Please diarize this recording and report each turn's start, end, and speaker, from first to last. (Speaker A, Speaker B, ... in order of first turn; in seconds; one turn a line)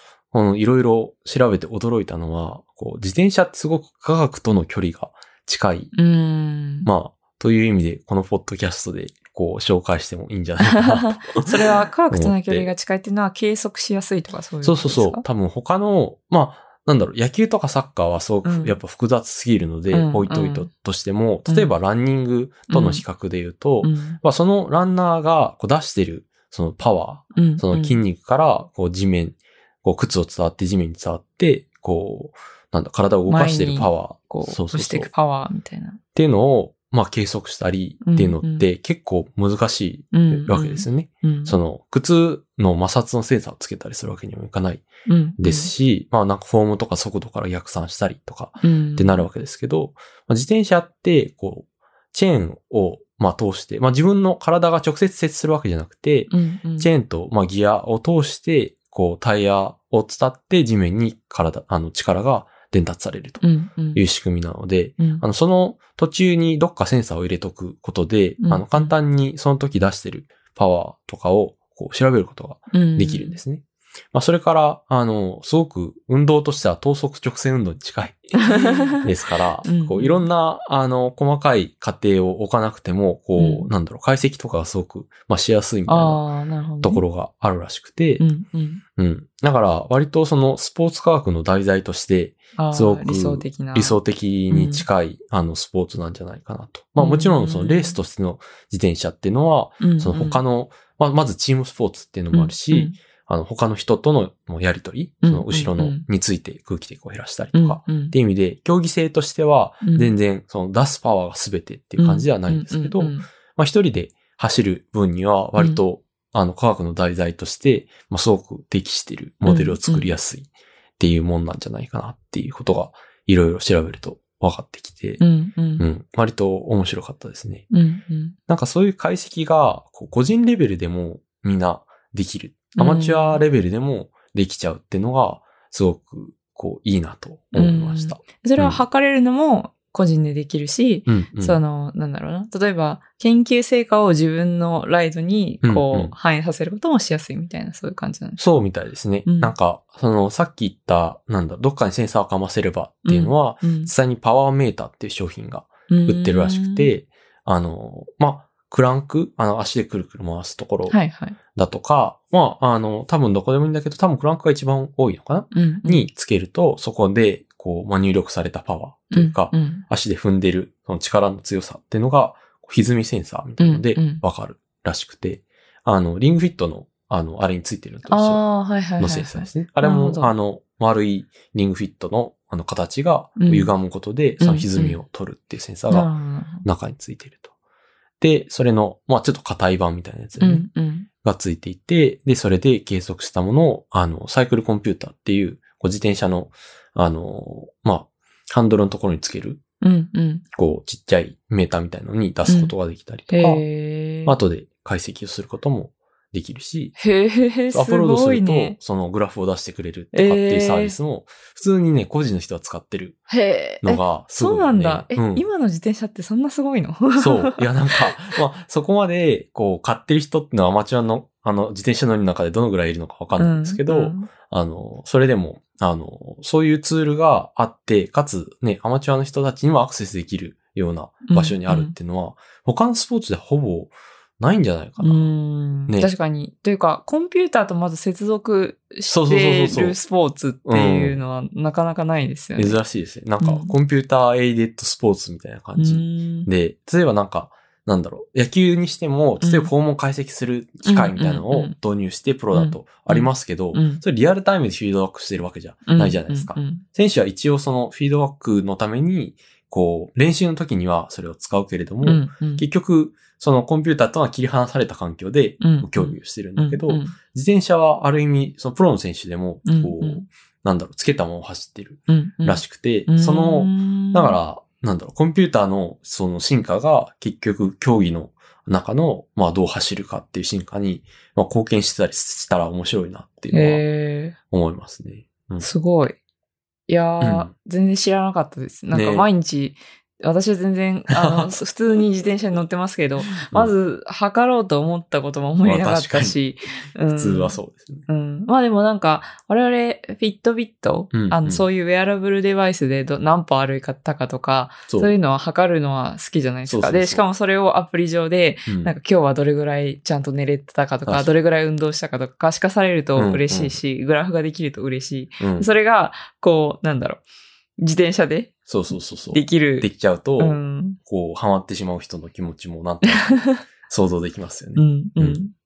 Speaker A: 0.3-5.9
Speaker B: 5.9-6.9
Speaker A: 6.8-11.6
Speaker B: 10.7-15.2
Speaker A: 12.1-12.7
Speaker A: 14.6-35.1
Speaker B: 18.4-18.8
Speaker B: 19.9-20.7
Speaker B: 21.5-21.7
Speaker B: 22.7-23.0
Speaker B: 23.8-24.2
Speaker B: 27.3-28.0
Speaker B: 33.3-36.0
Speaker A: 36.1-86.2
Speaker B: 38.0-38.7
Speaker B: 40.1-41.5
Speaker B: 45.0-45.7
Speaker B: 48.6-49.3
Speaker B: 56.3-56.9
Speaker B: 63.4-64.0
Speaker B: 65.0-65.2
Speaker B: 68.4-68.9
Speaker B: 72.7-73.4
Speaker B: 78.4-79.1
Speaker B: 79.6-80.3
Speaker B: 83.4-83.7
Speaker B: 85.9-87.0
Speaker A: 86.8-88.3
Speaker B: 88.2-88.8
Speaker A: 89.0-125.2
Speaker B: 92.5-94.8
Speaker B: 97.0-98.0
Speaker B: 99.8-100.4
Speaker B: 102.3-103.0
Speaker B: 105.2-106.0
Speaker B: 107.5-108.1
Speaker B: 109.8-110.1
Speaker B: 112.0-113.3
Speaker B: 119.4-120.1
Speaker B: 125.2-125.8
Speaker A: 125.8-127.7
Speaker B: 127.7-128.3
Speaker A: 128.5-138.8
Speaker B: 132.8-133.4
Speaker B: 137.5-148.4
Speaker A: 141.1-141.6
Speaker A: 145.6-146.1
Speaker A: 148.4-161.0
Speaker B: 149.2-149.5
Speaker B: 153.1-153.9
Speaker B: 155.9-156.9
Speaker B: 160.9-161.4
Speaker A: 161.5-178.4
Speaker B: 165.5-166.1
Speaker B: 169.1-169.8
Speaker B: 173.6-174.2
Speaker B: 178.1-180.3
Speaker A: 179.0-186.1
Speaker B: 183.4-183.7
Speaker B: 184.4-185.0
Speaker B: 185.9-186.7
Speaker A: 186.6-187.5
Speaker A: 188.2-190.7
Speaker B: 190.4-191.1
Speaker A: 191.2-199.6
Speaker B: 199.8-200.4
Speaker A: 200.5-203.6
Speaker B: 202.5-202.7
Speaker B: 203.3-204.3
Speaker A: 204.2-207.0
Speaker B: 207.0-208.8
Speaker A: 207.7-213.2
Speaker B: 210.1-211.0
Speaker B: 213.3-217.6
Speaker A: 213.8-215.4
Speaker A: 217.2-235.3
Speaker B: 223.4-224.3
Speaker B: 231.2-231.9
Speaker B: 235.0-242.8
Speaker A: 239.1-240.0
Speaker A: 240.6-241.2
Speaker A: 242.6-283.8
Speaker B: 243.4-243.7
Speaker B: 245.8-246.5
Speaker B: 249.4-249.7
Speaker B: 250.8-251.8
Speaker B: 252.5-254.0
Speaker B: 255.9-256.8
Speaker B: 262.0-262.6
Speaker B: 265.6-267.1
Speaker B: 269.6-270.2
Speaker B: 272.1-274.4
Speaker B: 283.5-284.4
Speaker A: 284.5-285.7
Speaker B: 285.6-286.1
Speaker B: 286.9-317.2
Speaker A: 287.2-287.5
Speaker A: 288.9-289.3
Speaker A: 291.1-291.6
Speaker A: 293.4-293.7
Speaker A: 295.6-296.4
Speaker A: 297.1-298.1
Speaker A: 301.1-301.6
Speaker A: 304.9-305.1
Speaker A: 306.6-307.2
Speaker A: 308.7-308.9
Speaker A: 311.1-311.3
Speaker A: 313.1-313.8
Speaker A: 315.4-315.7
Speaker B: 317.8-321.0
Speaker A: 318.7-325.4
Speaker B: 323.1-323.6
Speaker B: 324.8-325.5